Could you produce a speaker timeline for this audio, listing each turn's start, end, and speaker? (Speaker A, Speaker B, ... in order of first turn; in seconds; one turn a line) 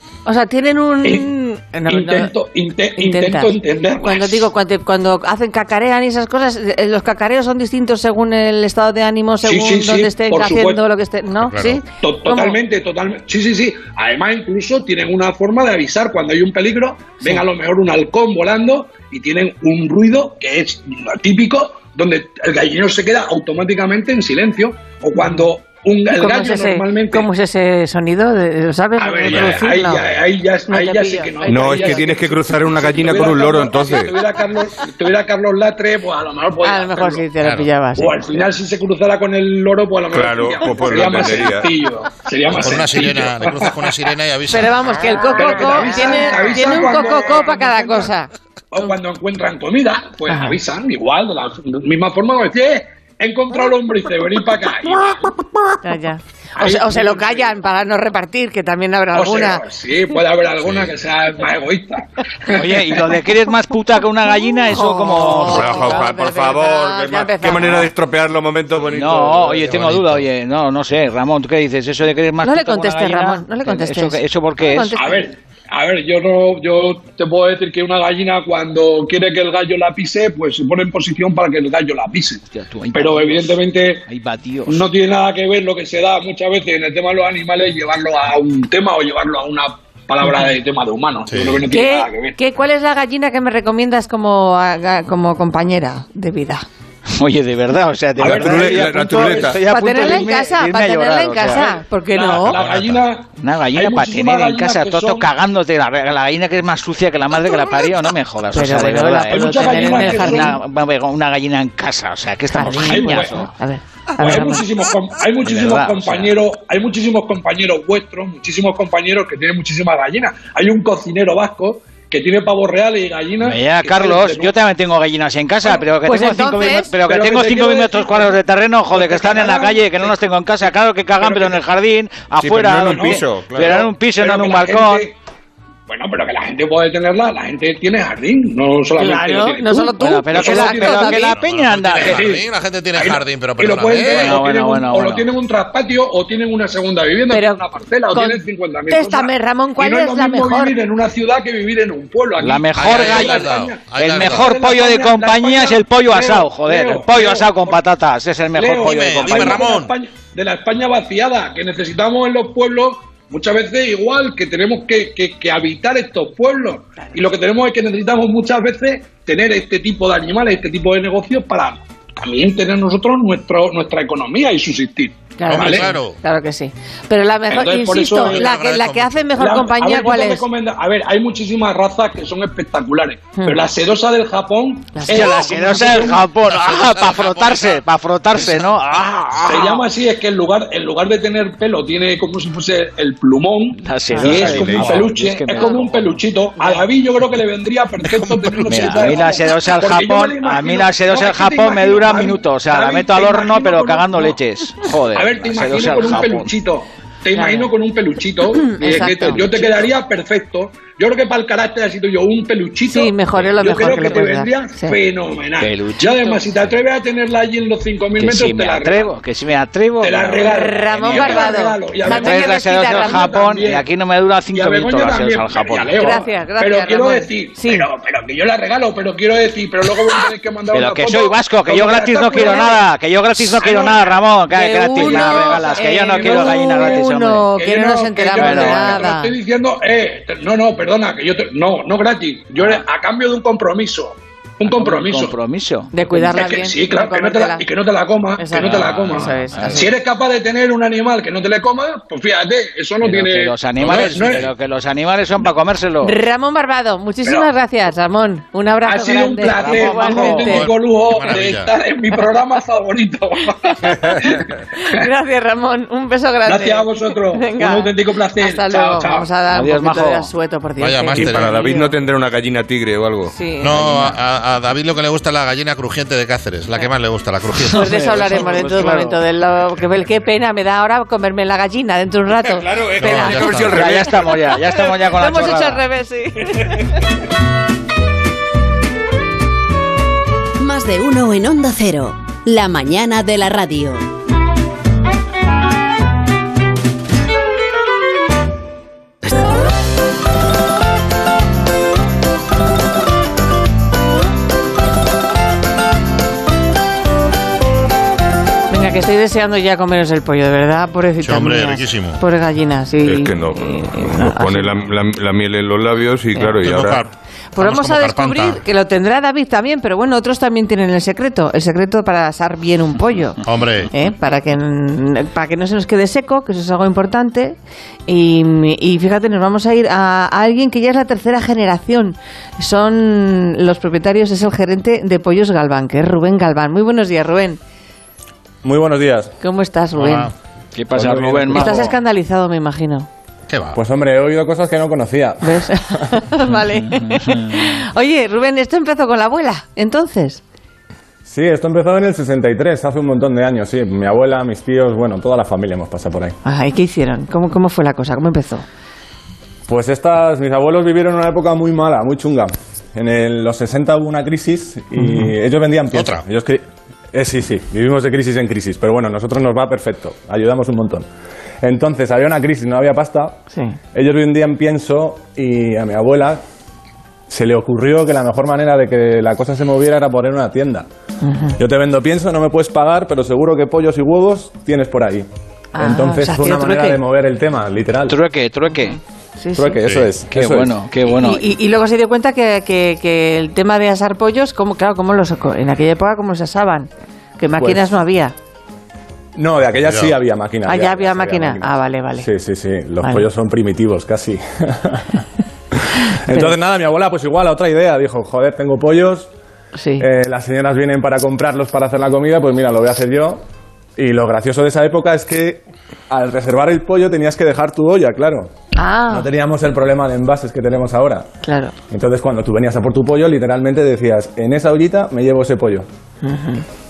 Speaker A: 0.3-2.3
Speaker B: 1.9-4.5
Speaker A: 3.0-12.6
Speaker B: 9.4-10.8
Speaker C: 11.4-11.8
Speaker B: 12.0-27.3
Speaker A: 25.2-25.5
Speaker A: 26.1-30.1
Speaker B: 29.0-37.3
Speaker A: 30.7-32.1
Speaker D: 31.5-34.1
Speaker A: 36.6-38.5
Speaker C: 37.4-37.7
Speaker B: 38.0-44.0
Speaker D: 40.1-41.7
Speaker C: 42.5-44.8
Speaker A: 44.5-49.0
Speaker B: 45.3-48.1
Speaker B: 48.7-55.8
Speaker A: 50.3-50.6
Speaker A: 55.8-59.6
Speaker B: 56.6-57.5
Speaker B: 59.1-63.1
Speaker C: 60.6-60.9
Speaker E: 62.5-65.9
Speaker A: 64.7-67.9
Speaker D: 65.4-70.2
Speaker E: 68.9-75.0
Speaker A: 72.4-75.3
Speaker B: 75.0-82.4
Speaker E: 82.5-84.9
Speaker B: 82.9-84.1
Speaker B: 84.7-92.4
Speaker A: 90.2-90.5
Speaker C: 91.3-91.7
Speaker A: 91.7-96.7
Speaker E: 97.1-101.8
Speaker D: 98.2-99.6
Speaker B: 98.2-100.1
Speaker A: 99.7-102.6
Speaker B: 102.1-105.3
Speaker C: 102.4-103.1
Speaker E: 103.4-113.5
Speaker A: 108.5-110.6
Speaker B: 109.3-110.6
Speaker A: 112.5-114.7
Speaker B: 112.8-113.5
Speaker B: 114.2-124.5
Speaker E: 115.4-116.3
Speaker E: 123.4-135.1
Speaker A: 126.0-126.9
Speaker B: 127.0-130.2
Speaker B: 131.2-131.6
Speaker D: 132.4-133.9
Speaker B: 132.9-135.2
Speaker B: 135.9-141.2
Speaker A: 139.0-141.3
Speaker E: 140.0-142.3
Speaker C: 141.3-144.4
Speaker B: 142.0-157.8
Speaker E: 144.1-145.3
Speaker A: 147.3-150.8
Speaker E: 152.4-159.7
Speaker C: 152.8-154.5
Speaker B: 158.5-175.9
Speaker C: 158.8-159.9
Speaker A: 175.4-180.4
Speaker C: 175.5-176.2
Speaker B: 177.5-178.5
Speaker C: 178.2-179.3
Speaker B: 179.4-186.3
Speaker A: 184.9-186.2
Speaker E: 185.1-189.8
Speaker C: 186.4-187.8
Speaker B: 189.4-204.4
Speaker E: 193.8-196.1
Speaker A: 194.1-194.9
Speaker A: 195.5-195.8
Speaker A: 196.6-196.8
Speaker C: 198.0-199.3
Speaker E: 198.7-206.5
Speaker B: 205.1-219.2
Speaker A: 207.3-207.7
Speaker A: 208.5-209.9
Speaker A: 212.9-215.0
Speaker E: 215.6-216.6
Speaker E: 218.2-226.2
Speaker B: 220.0-223.9
Speaker A: 220.4-223.4
Speaker B: 224.5-232.8
Speaker A: 226.0-227.9
Speaker E: 230.7-237.5
Speaker A: 232.3-232.7
Speaker B: 233.4-234.2
Speaker A: 234.5-239.3
Speaker B: 235.0-237.0
Speaker B: 237.6-245.4
Speaker E: 238.4-239.1
Speaker E: 242.6-242.8
Speaker E: 244.7-246.4
Speaker A: 245.9-247.7
Speaker B: 246.2-254.5
Speaker A: 248.4-249.9
Speaker E: 248.6-249.9
Speaker E: 253.0-256.1
Speaker A: 256.0-260.7
Speaker B: 257.2-257.5
Speaker B: 258.8-265.0
Speaker E: 259.5-260.7
Speaker C: 260.5-261.8
Speaker A: 264.8-271.9
Speaker B: 266.5-269.3
Speaker E: 269.5-270.3
Speaker C: 270.8-271.6
Speaker D: 271.1-273.3
Speaker A: 273.3-274.2
Speaker C: 273.6-278.4
Speaker A: 277.7-283.8
Speaker E: 277.7-279.2
Speaker D: 282.4-284.4
Speaker C: 283.0-283.8
Speaker E: 283.4-285.8
Speaker A: 284.9-287.0
Speaker F: 290.6-294.1
Speaker A: 308.7-314.8
Speaker C: 311.2-312.2
Speaker D: 313.0-317.0
Speaker C: 316.6-318.6
Speaker A: 317.6-337.6
Speaker C: 323.4-323.9
Speaker G: 338.6-339.3
Speaker A: 339.4-340.3
Speaker C: 340.0-340.3
Speaker E: 340.8-342.0
Speaker G: 340.9-341.9
Speaker A: 341.5-343.1
Speaker C: 343.5-343.8
Speaker G: 343.7-346.1
Speaker A: 345.4-350.4
Speaker E: 346.9-347.7
Speaker G: 351.2-356.4
Speaker A: 356.4-358.6
Speaker G: 359.7-371.1
Speaker A: 364.9-365.3
Speaker C: 365.9-366.2
Speaker G: 371.6-373.4
Speaker G: 373.9-376.4
Speaker G: 377.3-380.9
Speaker A: 381.2-381.6
Speaker G: 381.6-385.3
Speaker A: 385.8-387.0
Speaker G: 385.8-388.2
Speaker E: 388.1-389.0
Speaker A: 388.8-389.8
Speaker G: 389.6-390.8
Speaker C: 389.8-390.1
Speaker E: 390.3-391.5
Speaker A: 391.1-398.4
Speaker G: 397.6-397.9
Speaker G: 399.4-409.3
Speaker C: 399.8-400.2
Speaker A: 400.7-402.3
Speaker A: 406.3-406.6
Speaker A: 409.8-410.1
Speaker G: 410.0-413.4
Speaker G: 414.0-418.5
Speaker A: 418.8-419.3
Speaker G: 419.1-421.3
Speaker A: 421.4-421.7
Speaker G: 421.9-425.9
Speaker A: 426.2-426.6